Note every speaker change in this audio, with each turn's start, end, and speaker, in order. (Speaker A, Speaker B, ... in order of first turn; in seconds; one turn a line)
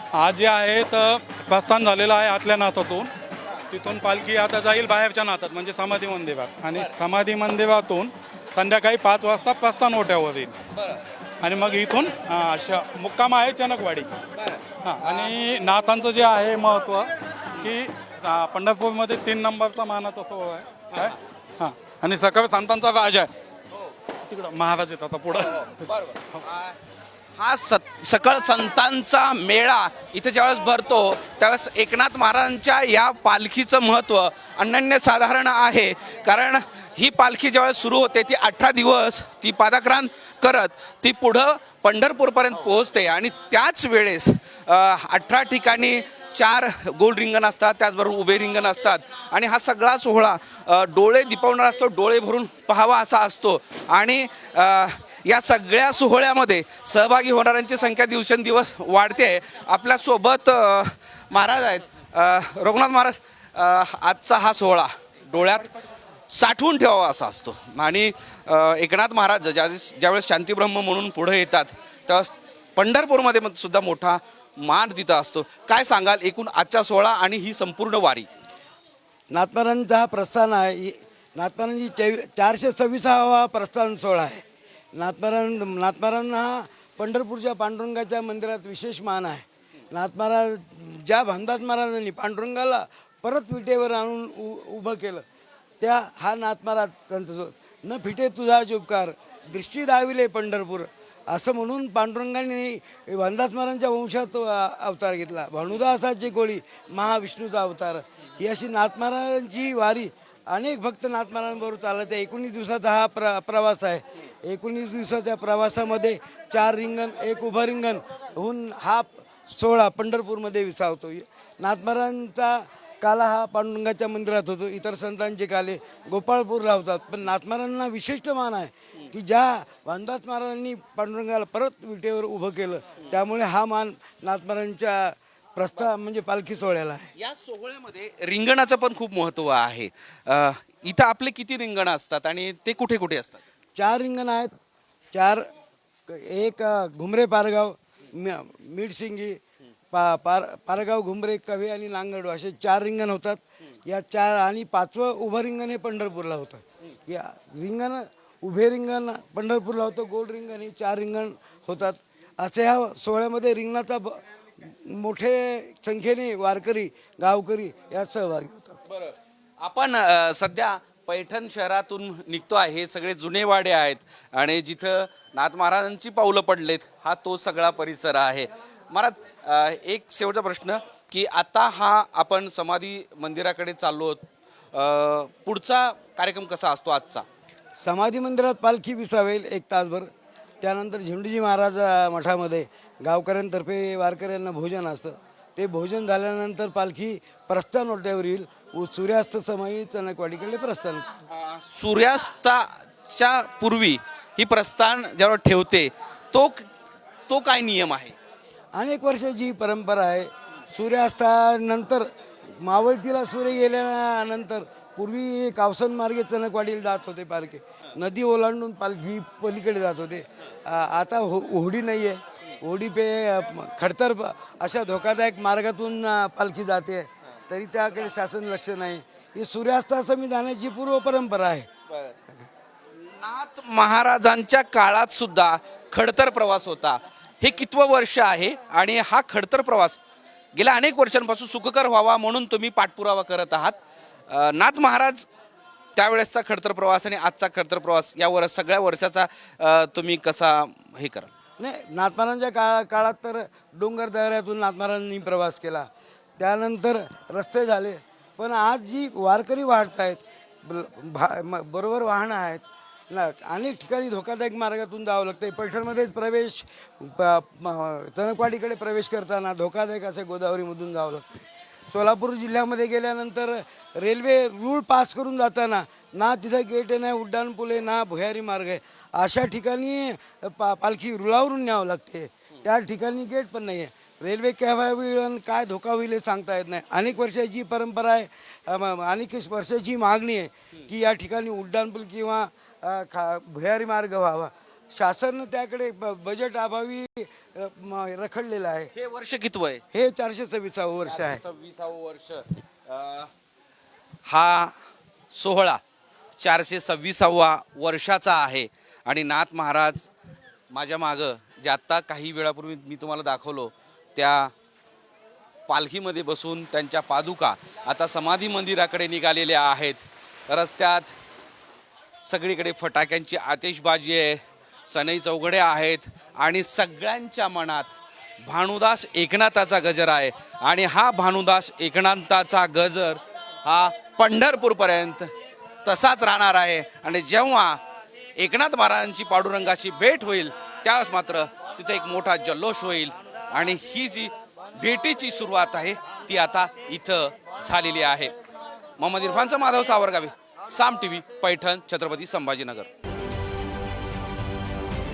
Speaker A: 0.1-3.1
Speaker A: 3.7-10.6
Speaker B: 10.7-11.0
Speaker A: 11.4-14.1
Speaker B: 14.3-15.4
Speaker A: 14.8-23.3
Speaker A: 24.3-25.8
Speaker B: 25.4-26.8
Speaker B: 27.4-65.8
Speaker B: 66.3-78.3
Speaker C: 79.3-84.4
Speaker C: 85.0-95.2
Speaker C: 95.8-137.1
Speaker B: 137.2-143.4
Speaker C: 143.8-144.5
Speaker C: 145.1-145.4
Speaker C: 146.1-149.4
Speaker C: 149.9-168.8
Speaker B: 168.9-187.2
Speaker C: 187.8-190.1
Speaker C: 190.6-201.1
Speaker B: 201.3-206.7
Speaker B: 207.3-208.2
Speaker C: 208.8-212.1
Speaker C: 212.6-231.7
Speaker B: 231.9-232.2
Speaker B: 233.0-240.0
Speaker B: 240.6-243.8
Speaker B: 244.3-245.3
Speaker B: 246.0-251.3
Speaker C: 251.6-255.9
Speaker C: 256.4-298.9
Speaker B: 298.9-299.8
Speaker C: 299.9-301.4
Speaker B: 301.1-303.3
Speaker B: 304.2-304.7
Speaker B: 305.3-305.8
Speaker B: 306.4-310.1
Speaker B: 310.7-314.5
Speaker B: 315.7-321.1
Speaker B: 322.2-335.3
Speaker B: 335.8-337.8
Speaker B: 338.4-348.3
Speaker B: 349.0-352.9